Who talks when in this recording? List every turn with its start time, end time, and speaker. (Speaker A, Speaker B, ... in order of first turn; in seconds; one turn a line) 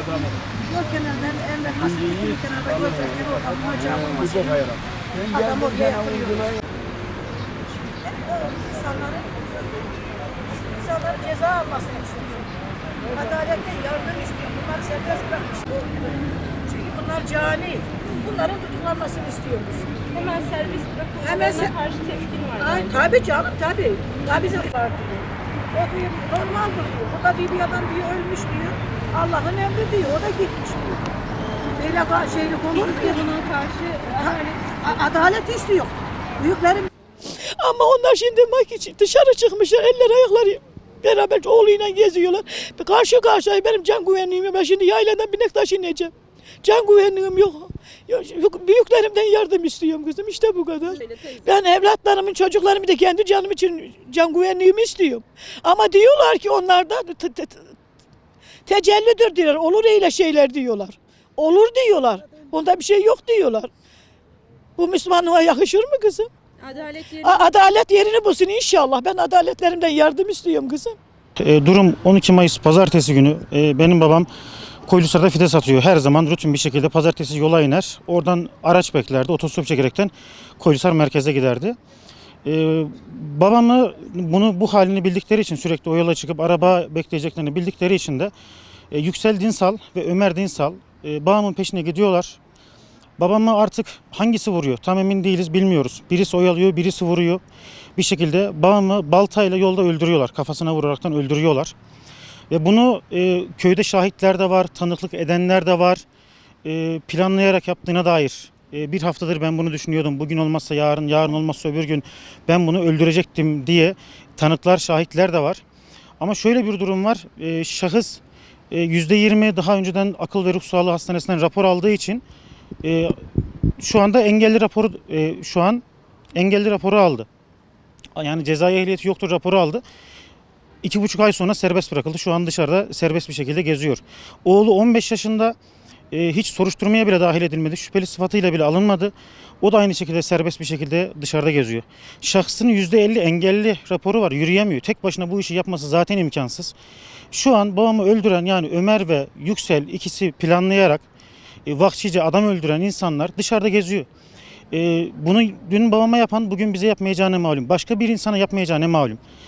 Speaker A: 0.6-6.5
Speaker A: 8.0-9.5
Speaker A: 10.7-12.5
Speaker A: 13.1-19.9
Speaker B: 20.1-23.2
Speaker A: 21.2-21.7
Speaker A: 22.6-30.9
Speaker C: 28.4-31.0
Speaker A: 31.8-32.6
Speaker C: 31.8-33.2
Speaker B: 32.7-34.8
Speaker A: 34.7-35.5
Speaker C: 34.9-57.8
Speaker A: 36.4-36.7
Speaker B: 51.0-51.4
Speaker C: 58.6-63.7
Speaker C: 64.8-66.3
Speaker B: 66.6-67.5
Speaker C: 67.1-71.0
Speaker D: 71.4-74.3
Speaker D: 74.9-81.8
Speaker D: 82.4-88.3
Speaker D: 88.9-92.4
Speaker D: 93.2-97.4
Speaker D: 98.0-101.7
Speaker D: 102.5-106.0
Speaker D: 106.6-115.6
Speaker D: 116.2-122.2
Speaker D: 122.8-123.2
Speaker D: 123.8-125.8
Speaker D: 126.3-127.3
Speaker D: 128.2-129.8
Speaker D: 130.8-135.6
Speaker D: 136.1-146.7
Speaker D: 147.3-151.0
Speaker D: 151.7-154.1
Speaker D: 154.7-159.2